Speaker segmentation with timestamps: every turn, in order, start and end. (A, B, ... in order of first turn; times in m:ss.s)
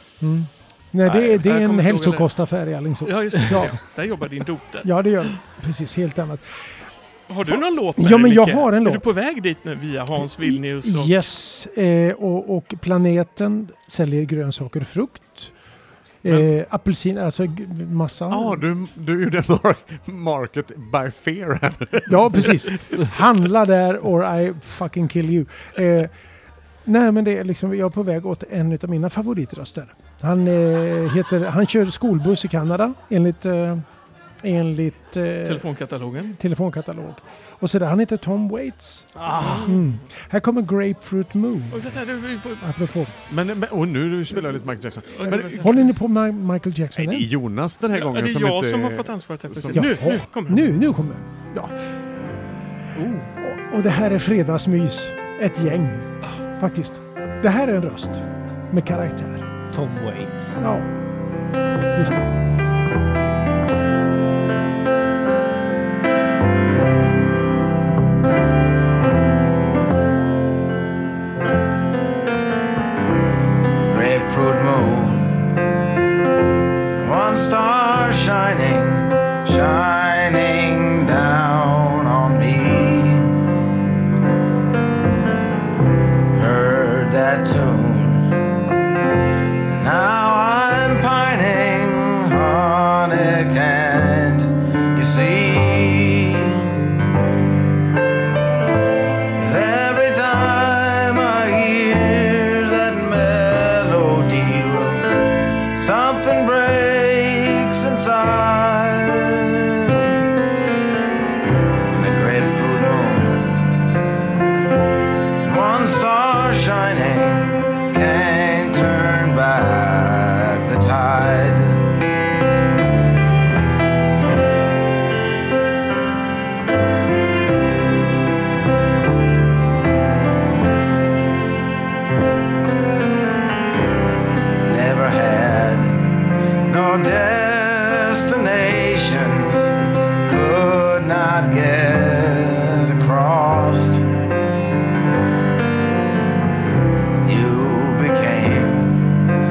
0:00.2-0:03.8 A
0:01.0-0:02.3 B
0:03.0-0:05.3 B
0:04.8-0:06.4 A
0:07.3-0:11.2 B
0:07.5-0:09.1 A
0:10.2-0:15.5 A
0:16.2-0:18.6 A
0:18.3-0:23.2 C
0:22.1-0:26.1 A
0:26.8-0:33.8 A
0:34.4-0:35.7 A
0:35.4-0:36.4 B
0:36.3-0:41.9 A
0:39.2-0:39.8 D
0:39.3-0:40.0 B
0:41.7-0:42.6 B
0:42.6-0:43.2 A
0:43.3-0:45.9 C
0:45.1-0:45.9 B
0:45.2-0:47.3 A
0:47.0-0:50.0 C
0:47.9-0:50.7 B
0:49.7-0:51.7 A
0:53.0-0:53.4 D
0:53.4-0:59.5 A
0:59.7-1:00.6 D
1:00.6-1:00.9 A
1:01.8-1:02.3 A
1:13.9-1:15.3 E
1:17.0-1:23.4 E
1:26.3-1:28.3 E
1:29.7-1:36.7 E
1:39.4-1:45.1 E
1:45.7-1:50.0 E
1:51.9-1:53.5 E
1:55.4-2:01.9 E
2:14.6-2:16.0 E
2:16.7-2:19.7 E
2:20.2-2:24.0 E
2:27.2-2:29.0 E